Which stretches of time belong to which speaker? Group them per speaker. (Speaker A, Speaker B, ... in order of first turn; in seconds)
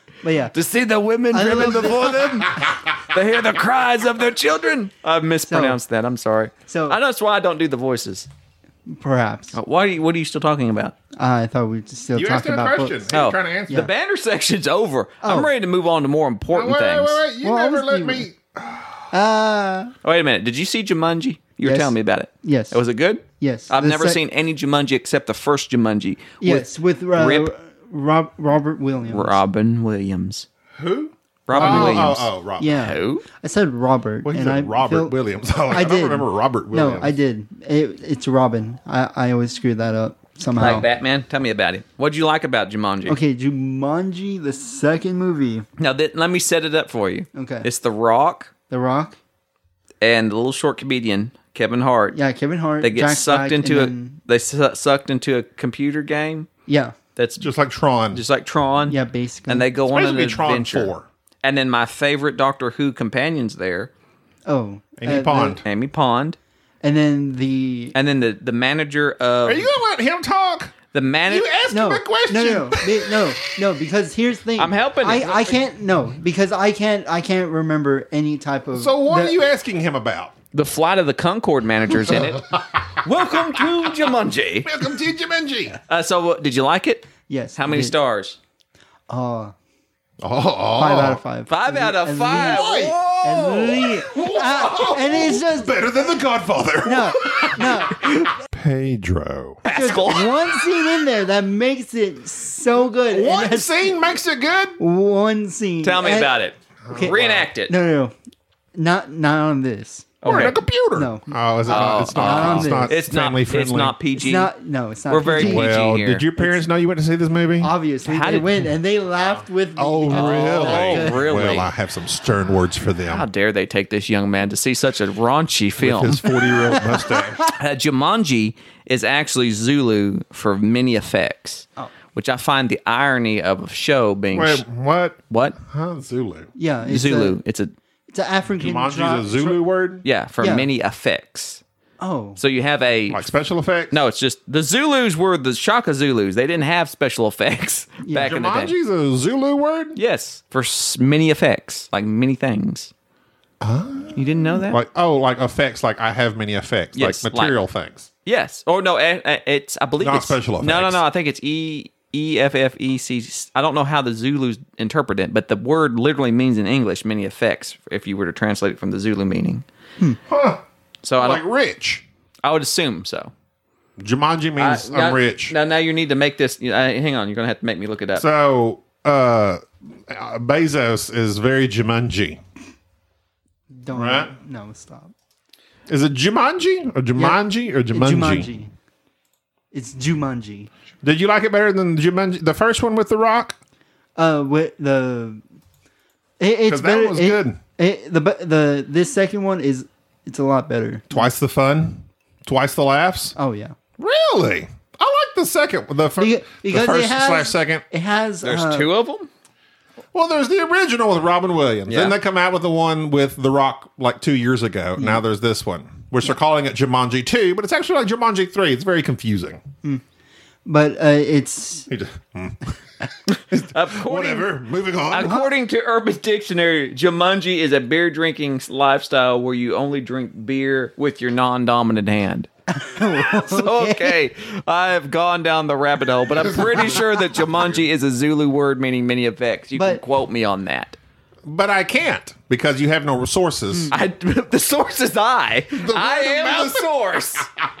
Speaker A: 0.2-0.5, 1.3-2.4, 5.5-5.8, 6.7-7.0, 8.8-9.6, 11.1-13.1, 15.2-15.5, 17.4-18.3, 19.1-19.9, 21.6-22.8, 23.4-24.2, 26.4-29.4, 31.5-35.1, 35.7-40.9, 43.0-45.7, 47.3-47.7, 48.7-49.2, 52.1-54.2, 56.7-57.0, 58.9-59.7, 64.5-65.6, 66.8-68.0, 71.7-79.4, 87.3-88.0, 89.1-89.5, 90.8-95.8, 96.8-98.0, 99.7-104.0, 104.8-108.1, 108.8-112.9, 114.1-115.8, 117.6-121.3, 126.8-127.4, 136.5-137.4, 138.1-139.6, 140.4-140.7, 142.0-142.4, 148.0-148.3, 183.7-185.1, 187.9-188.7, 189.7-190.7, 194.2-195.4, 196.4-201.3, 203.3-203.7, 206.2-208.9, 220.6-221.9, 225.2-225.5, 232.7-234.2, 239.7-240.0
Speaker B: 0.5-8.3, 9.5-10.9, 13.1-17.2, 20.0-27.5, 29.1-30.4, 31.5-33.2, 40.5-43.2, 45.8-48.5, 50.0-52.2, 52.8-56.5, 57.1-57.5, 58.1-60.9, 61.4-63.9, 65.6-66.4, 67.9-69.7, 70.9-71.5, 74.6-75.6, 80.5-84.7, 85.9-88.4, 91.5-94.0, 99.6-100.4, 105.8-107.7, 110.2-110.6, 111.7-114.5, 115.1-116.3, 118.0-118.5, 120.1-121.7, 123.0-126.3, 127.5-134.6, 135.3-135.6, 136.8-137.7, 140.0-141.6, 142.4-143.3, 143.9-148.7, 149.9-152.9, 154.2-154.8, 156.9-157.6, 158.2-169.6, 171.0-171.4, 172.4-173.3, 174.6-178.2, 208.4-209.3, 211.9-212.2, 223.3-224.5, 225.1-232.5, 233.4-241.0, 243.9-247.5
Speaker C: 12.1-13.9, 16.5-19.1, 30.8-32.7, 34.2-37.1, 57.4-58.2, 59.9-61.1, 65.0-65.6, 69.4-70.7, 71.3-73.2, 78.7-80.3, 82.1-83.0, 84.6-85.8, 90.2-91.2, 92.3-93.0, 94.1-97.8, 98.5-99.6, 103.1-104.8, 106.8-107.5, 110.2-114.0, 115.3-117.7, 119.8-123.2, 125.8-127.5, 134.3-136.5, 138.6-140.0, 143.1-143.9, 148.2-150.0, 153.6-158.1, 160.0-161.0, 170.3-170.6, 171.2-172.0, 174.0-175.5, 178.2-182.4, 183.9-184.3, 185.9-188.5, 191.0-193.6, 196.7-197.6, 201.1-203.3, 204.0-207.8, 210.1-219.6, 221.9-222.7, 223.5-225.4, 236.3-237.8, 241.4-243.9, 245.7-246.9